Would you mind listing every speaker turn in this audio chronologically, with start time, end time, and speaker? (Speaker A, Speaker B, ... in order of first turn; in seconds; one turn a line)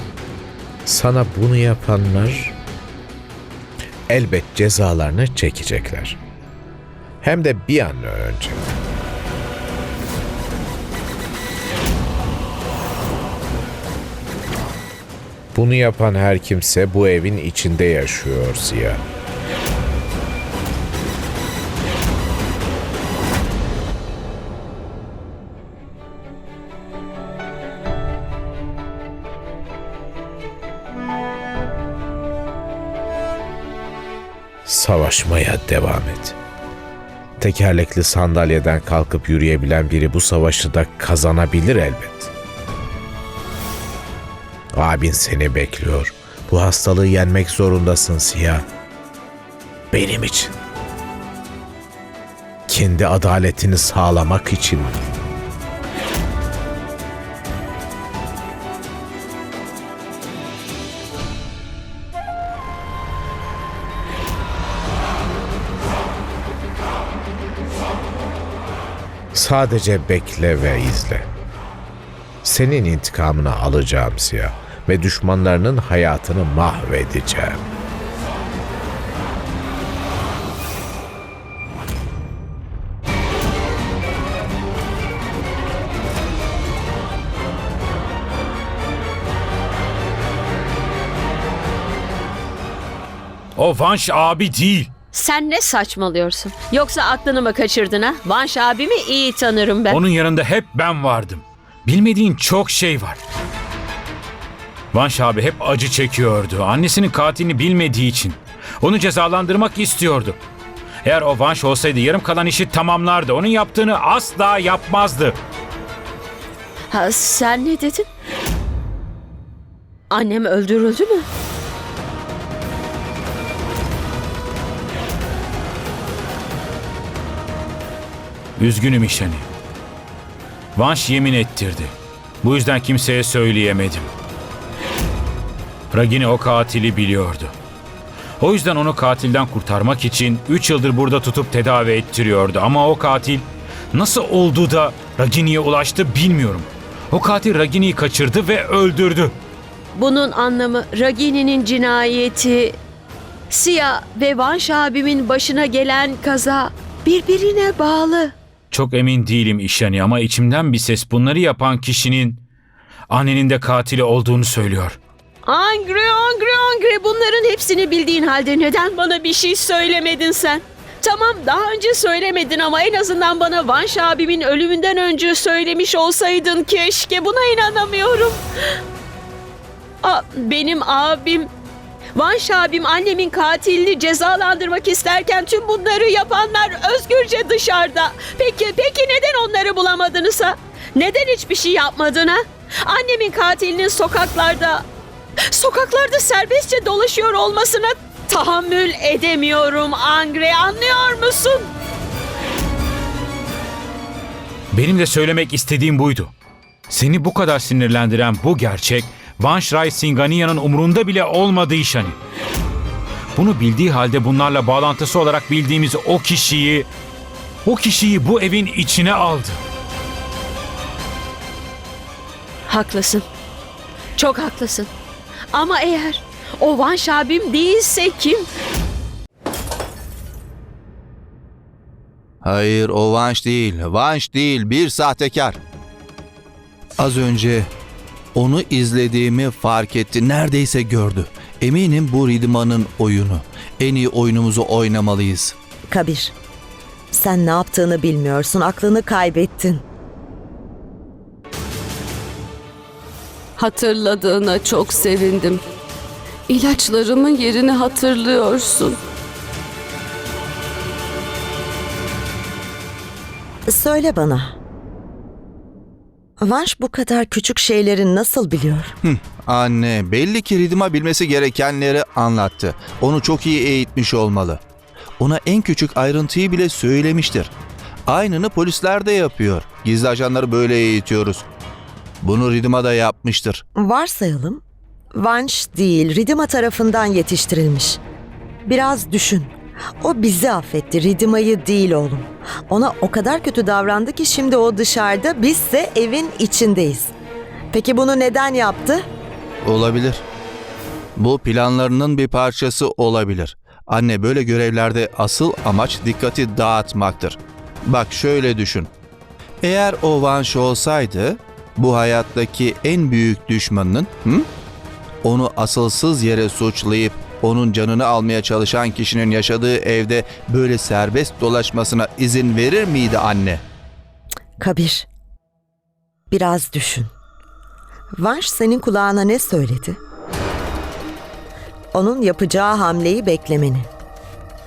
Speaker A: 0.8-2.6
Speaker A: 4.1-6.2
Speaker A: 7.2-8.7
Speaker A: 15.5-19.0
Speaker A: 34.7-36.4
Speaker A: 37.4-42.3
Speaker A: 44.7-48.6
Speaker A: 49.9-50.5
Speaker A: 52.7-55.0
Speaker A: 69.3-71.3
Speaker A: 72.4-77.6
Speaker B: 93.6-94.9
Speaker C: 95.1-100.0
Speaker B: 99.9-103.2
Speaker B: 104.9-110.4
Speaker B: 111.0-115.4
Speaker C: 116.9-118.1
Speaker C: 120.1-121.3
Speaker B: 128.6-129.5
Speaker B: 130.8-134.1
Speaker B: 135.9-137.5
Speaker B: 138.4-149.3
Speaker C: 149.9-152.8
Speaker C: 153.5-158.3
Speaker B: 158.7-162.4
Speaker B: 163.1-165.0
Speaker C: 165.5-178.4
Speaker C: 180.0-181.5
Speaker C: 182.2-194.8
Speaker C: 195.5-201.7
Speaker B: 204.7-206.3
Speaker B: 206.9-212.2
Speaker B: 213.3-216.9
Speaker B: 217.7-219.6
Speaker C: 222.7-223.3
Speaker C: 224.2-224.9
Speaker C: 225.5-228.5
Speaker D: 232.4-235.6
Speaker D: 237.0-237.7
Speaker D: 238.3-245.6
Speaker E: 245.9-246.3
Speaker E: 247.1-249.8
Speaker F: 253.6-255.7
Speaker F: 256.5-259.0
Speaker E: 263.7-264.6
Speaker E: 266.4-268.9
Speaker D: 269.0-274.6
Speaker D: 275.2-277.5
Speaker D: 278.1-281.4
Speaker D: 282.2-283.6
Speaker E: 283.8-284.6
Speaker E: 285.1-288.0
Speaker E: 288.6-297.1
Speaker E: 297.7-299.1
Speaker D: 299.6-300.2
Speaker D: 301.2-308.9
Speaker D: 309.6-314.5
Speaker D: 315.2-323.6
Speaker E: 324.6-325.1
Speaker E: 326.3-327.1
Speaker E: 328.1-330.0
Speaker E: 331.9-333.9